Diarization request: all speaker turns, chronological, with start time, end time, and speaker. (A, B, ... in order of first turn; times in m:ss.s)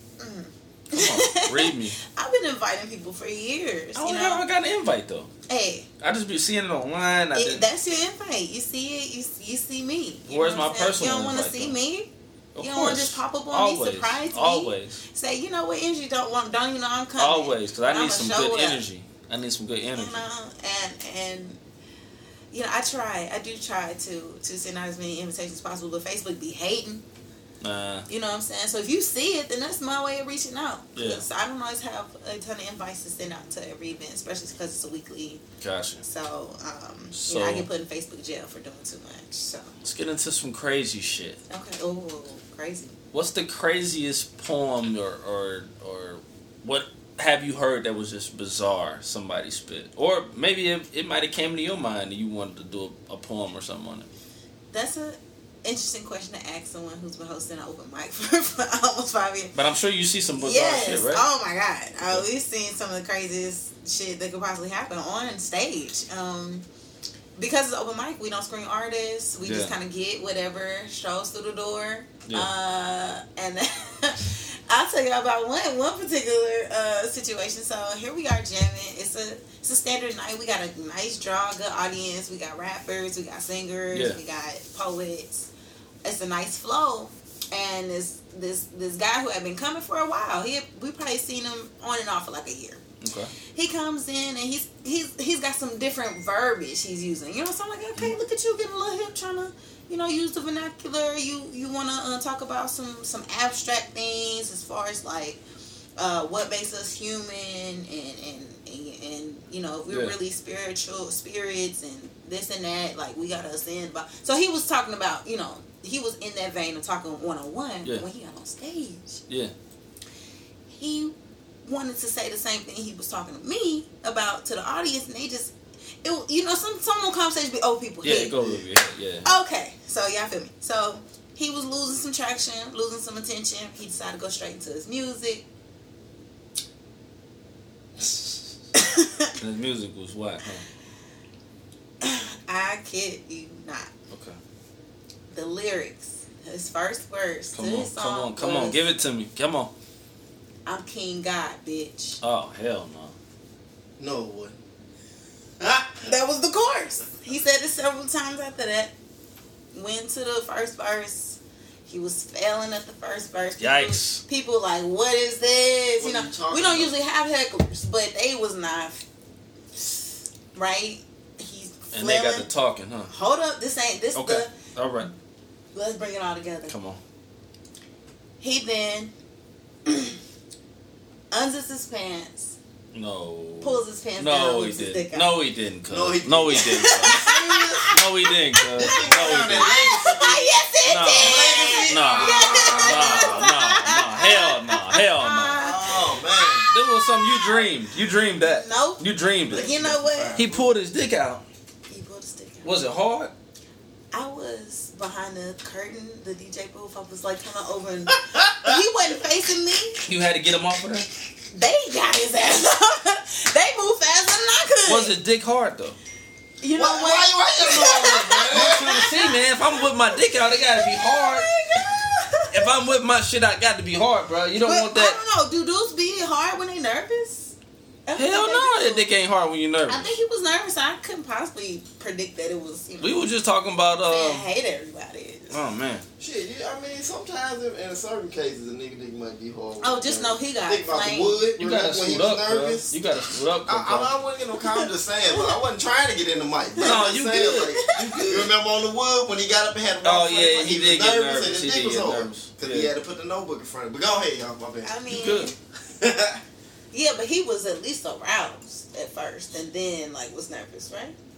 0:00.2-0:04.4 A
0:00.9-0:02.0 B
0:03.9-0:05.3 B
0:05.5-0:05.9 A
0:06.0-0:07.6 B
0:07.3-0:18.8 A
0:10.3-0:11.8 B
0:12.5-0:15.0 B
0:17.2-0:20.2 B
0:19.9-0:21.6 A
0:22.5-0:27.0 A
0:27.6-0:28.0 B
0:28.1-0:35.4 A
0:31.0-0:31.2 B
0:35.6-0:36.0 B
0:36.0-0:39.7 A
0:37.1-0:37.7 B
0:39.8-0:41.4 B
0:41.5-0:43.0 A
0:43.1-0:54.1 B
0:54.7-0:59.5 A
0:59.5-1:01.2 B
1:00.3-1:06.6 A
1:07.4-1:25.5 A
1:09.4-1:09.7 B
1:23.9-1:24.2 B
1:26.0-1:32.8 A
1:33.0-1:33.3 B
1:33.4-1:45.4 A
1:46.0-1:59.2 A
1:49.9-1:50.1 B
2:00.7-2:01.1 A
2:01.6-2:08.5 A
2:08.0-2:09.3 B
2:09.2-2:15.5 A
2:18.8-2:19.3 A
2:19.4-2:20.6 B
2:22.0-2:23.9 A
2:24.1-2:24.4 B
2:25.3-2:28.9 A
2:27.5-2:29.7 B
2:30.6-2:32.2 A
2:32.2-2:33.1 B
2:34.0-2:34.6 C
2:35.6-2:38.9 A
2:39.7-2:49.0 A
2:43.6-2:44.2 B
2:46.0-2:47.0 C
2:50.5-2:52.5 A
2:51.9-2:53.1 B
2:53.1-2:54.5 A
2:54.1-2:55.1 B
2:55.7-2:56.7 A
2:56.7-2:57.0 B
2:58.4-2:59.1 A
2:59.8-3:00.2 A
3:01.3-3:02.6 A
3:02.9-3:07.2 B
3:03.6-3:05.4 A
3:05.9-3:08.0 C
3:06.5-3:08.0 A
3:07.9-3:09.7 B
3:08.6-3:17.7 A
3:08.7-3:10.5 C
3:10.8-3:15.6 B
3:11.2-3:13.4 C
3:15.6-3:16.6 C
3:16.7-3:19.7 B
3:18.3-3:20.4 A
3:19.5-3:20.7 C
3:20.3-3:21.4 B
3:21.9-3:22.8 A
3:22.6-3:23.3 B
3:24.1-3:30.0 A
3:28.3-3:28.8 C
3:30.0-3:31.1 B
3:31.5-3:35.1 A
3:34.8-3:36.0 B
3:36.6-3:39.8 A
3:36.7-3:39.0 C
3:38.4-3:41.5 B
3:40.7-3:42.7 A
3:42.5-3:45.2 B
3:44.6-3:47.5 A
3:48.0-3:49.1 A
3:48.1-3:50.1 B
3:49.9-3:53.3 A
3:53.0-3:54.4 B
3:54.0-3:55.6 A
3:55.5-3:56.0 B
3:56.2-4:03.0 C
3:59.8-4:01.4 A
4:01.6-4:04.1 B
4:03.6-4:15.0 C
4:04.7-4:05.6 A
4:06.8-4:08.5 B
4:07.8-4:08.2 A
4:10.0-4:12.9 B
4:14.8-4:15.6 A
4:15.1-4:15.5 B
4:16.0-4:16.4 C
4:16.9-4:21.2 A